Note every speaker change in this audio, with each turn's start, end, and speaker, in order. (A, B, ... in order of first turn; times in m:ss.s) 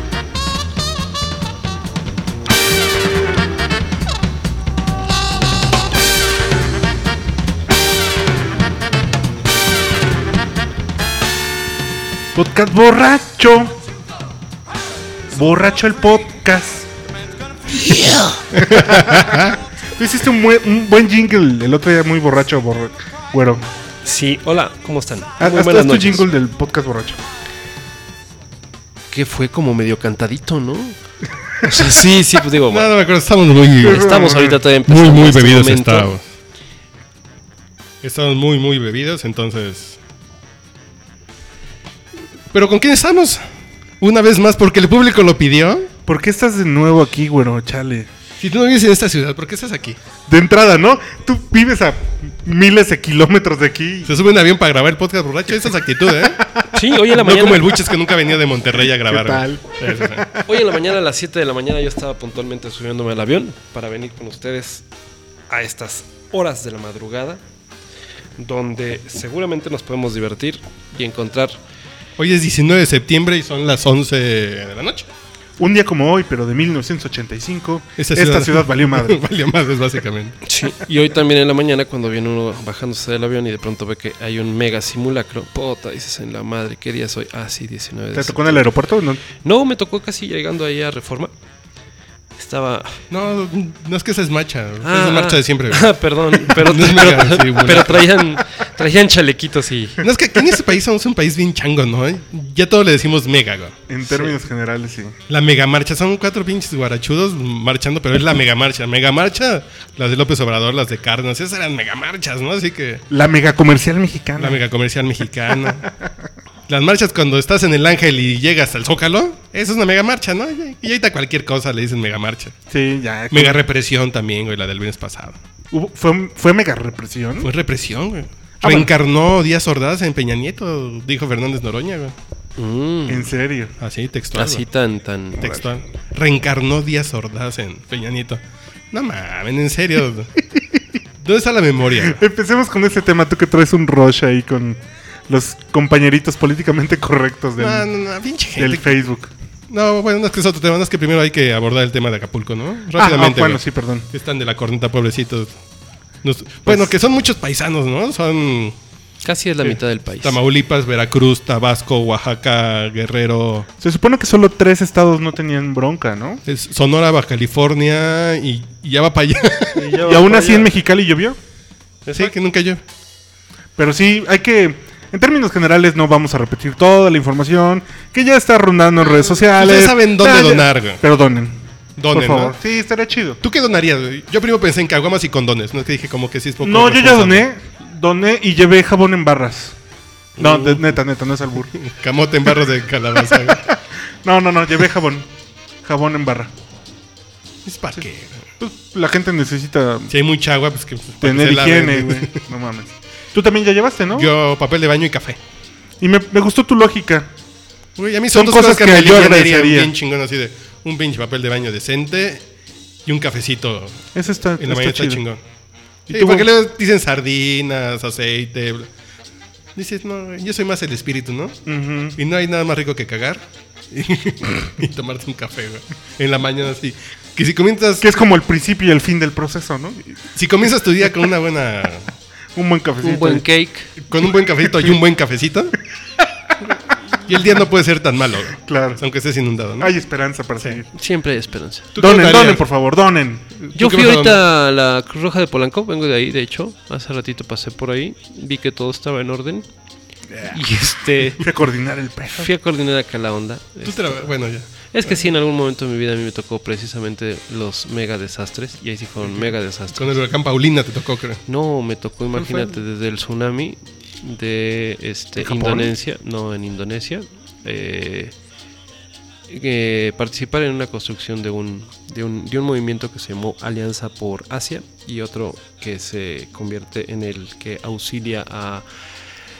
0:12.3-0:13.8 A
0:15.3-0:16.9 A
0:17.9-0:18.3 B
0:18.5-0:23.6 A
0:18.5-0:19.6 C
0:24.0-0:26.3 B
0:25.4-0:27.2 A
0:29.1-0:31.0 B
0:31.6-0:32.9 B
0:32.7-0:34.0 C
0:33.8-0:34.6 A
0:33.8-0:36.1 B
0:34.9-0:36.2 C
0:38.0-0:40.0 C
0:42.5-0:43.4 C
0:44.0-0:45.9 C
0:46.0-0:48.1 A
0:48.4-0:50.0 C
0:50.3-0:54.1 A
0:54.0-0:56.5 C
0:56.1-0:56.8 A
0:56.7-0:57.8 B
0:57.1-1:00.3 C
0:58.8-1:00.8 A
1:00.4-1:04.8 B
1:05.5-1:07.4 B
1:08.4-1:11.6 B
1:12.2-1:15.1 C
1:15.6-1:19.2 A
1:18.0-1:20.4 C
1:20.4-1:28.7 B
1:28.1-1:29.2 A
1:29.4-1:31.3 B
1:32.4-1:33.0 B
1:33.1-1:38.1 C
1:34.8-1:40.0 B
1:40.0-1:43.7 C
1:43.9-1:45.1 A
1:45.3-1:53.0 C
1:53.1-1:54.6 A
1:54.4-1:55.9 C
1:55.5-1:55.8 A
1:56.7-2:02.5 C
2:02.7-2:03.6 A
2:03.3-2:05.4 C
2:05.7-2:07.5 A
2:07.4-2:12.1 C
2:08.6-2:08.9 A
2:12.6-2:13.3 B
2:13.1-2:13.7 A
2:13.8-2:14.6 C
2:14.3-2:15.6 B
2:15.4-2:20.3 C
2:21.2-2:22.2 C
2:22.0-2:27.9 A
2:27.6-2:29.0 C
2:28.5-2:29.3 A
2:29.7-2:35.6 C
2:32.9-2:34.1 A
2:36.2-2:38.8 C
2:36.6-2:36.9 A
2:39.2-2:40.4 B
2:39.6-2:43.7 C
2:43.8-2:46.4 A
2:46.4-2:49.9 C
2:49.7-2:50.7 B
2:50.0-2:51.4 A
2:52.0-2:52.3 B
2:52.1-2:52.8 C
2:53.8-3:03.4 A
2:59.5-3:01.0 C
3:02.0-3:02.6 C
3:03.4-3:07.4 C
3:06.6-3:09.8 A
3:10.4-3:11.7 A
3:10.4-3:10.8 C
3:11.7-3:13.7 C
3:13.2-3:15.3 A
3:15.8-3:16.5 A
3:17.6-3:18.5 C
3:18.6-3:20.1 A
3:20.1-3:22.4 C
3:21.2-3:24.3 A
3:24.1-3:25.4 C
3:26.0-3:27.3 A
3:28.0-3:32.4 C
3:28.3-3:29.9 A
3:33.0-3:34.0 C
3:34.1-3:35.2 A
3:34.6-3:35.4 C
3:36.1-3:36.5 A
3:36.1-3:38.9 C
3:39.8-3:41.6 C
3:41.6-3:42.2 A
3:42.1-3:48.1 C
3:48.0-3:50.1 A
3:50.3-3:52.1 C
3:52.5-3:53.4 A
3:53.0-3:53.9 B
3:54.0-3:55.7 C
3:56.2-3:56.5 A
3:57.2-3:59.9 C
3:58.6-3:59.0 A
3:59.8-4:00.9 A
4:01.0-4:01.9 B
4:01.9-4:02.6 C
4:02.0-4:03.5 A
4:03.6-4:04.4 C
4:03.8-4:09.7 B
4:10.3-4:10.6 A
4:10.5-4:11.5 B
4:11.4-4:12.5 A
4:12.3-4:20.2 B
4:13.8-4:14.7 C
4:19.3-4:21.4 C
4:21.5-4:28.3 B
4:22.4-4:22.7 C
4:25.4-4:25.9 A
4:29.5-4:38.8 B